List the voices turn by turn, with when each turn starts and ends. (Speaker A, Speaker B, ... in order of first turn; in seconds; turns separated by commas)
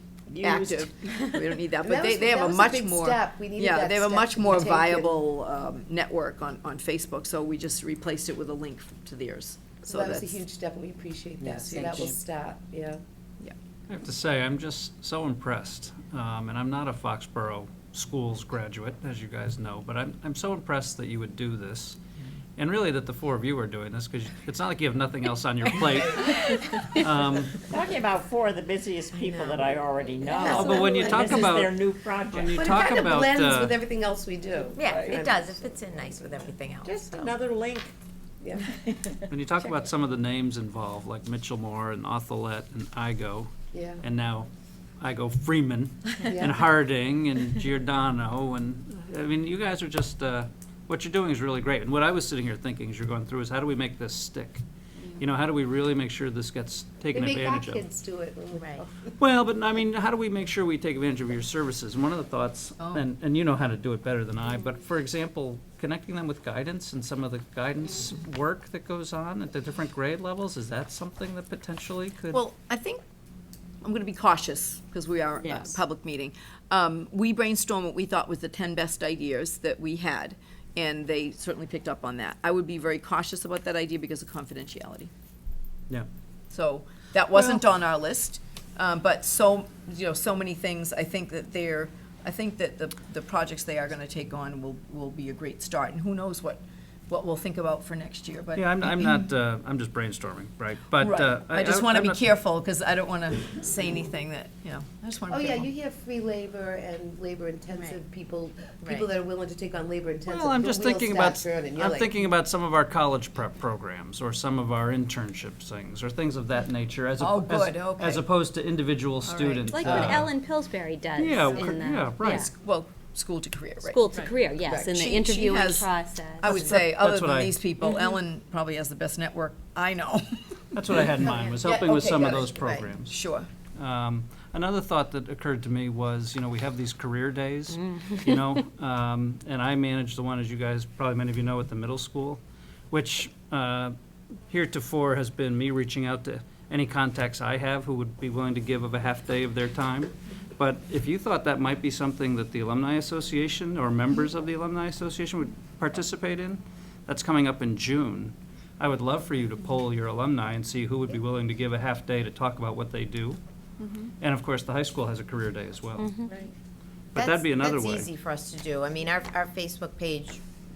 Speaker A: 0.3-0.9, Speaker B: 0.4-10.4, Speaker C: 1.8-5.1, Speaker C: 9.8-13.0, Speaker B: 11.7-12.1, Speaker D: 13.9-22.0, Speaker D: 22.6-27.6, Speaker A: 27.5-33.0, Speaker E: 29.1-29.8, Speaker E: 30.3-30.9, Speaker D: 30.4-31.8, Speaker C: 30.9-31.3, Speaker D: 32.3-33.8, Speaker C: 32.5-35.6, Speaker E: 34.7-37.3, Speaker A: 34.8-35.2, Speaker A: 36.8-37.9, Speaker A: 38.6-39.9, Speaker D: 39.3-44.5, Speaker C: 43.7-44.0, Speaker D: 45.0-54.6, Speaker C: 46.2-46.5, Speaker D: 55.2-57.9, Speaker C: 57.1-59.1, Speaker E: 58.5-58.8, Speaker D: 59.2-72.4, Speaker B: 72.3-73.0, Speaker B: 73.8-85.1, Speaker B: 86.5-99.3, Speaker D: 98.5-102.2, Speaker B: 101.0-105.7, Speaker C: 105.3-112.1, Speaker E: 107.7-108.0, Speaker E: 108.8-109.1, Speaker D: 110.2-120.3, Speaker B: 117.2-118.3, Speaker B: 119.2-120.3, Speaker F: 119.7-122.5, Speaker D: 121.2-122.5, Speaker B: 122.2-133.5, Speaker F: 123.8-126.8, Speaker D: 126.6-127.6, Speaker D: 130.7-133.2, Speaker E: 131.2-131.6, Speaker D: 133.8-142.4, Speaker F: 137.9-138.3, Speaker D: 142.9-143.9, Speaker D: 144.5-163.4, Speaker B: 163.8-164.1, Speaker D: 164.2-166.1, Speaker F: 166.0-166.3, Speaker D: 167.1-168.1, Speaker E: 167.1-170.4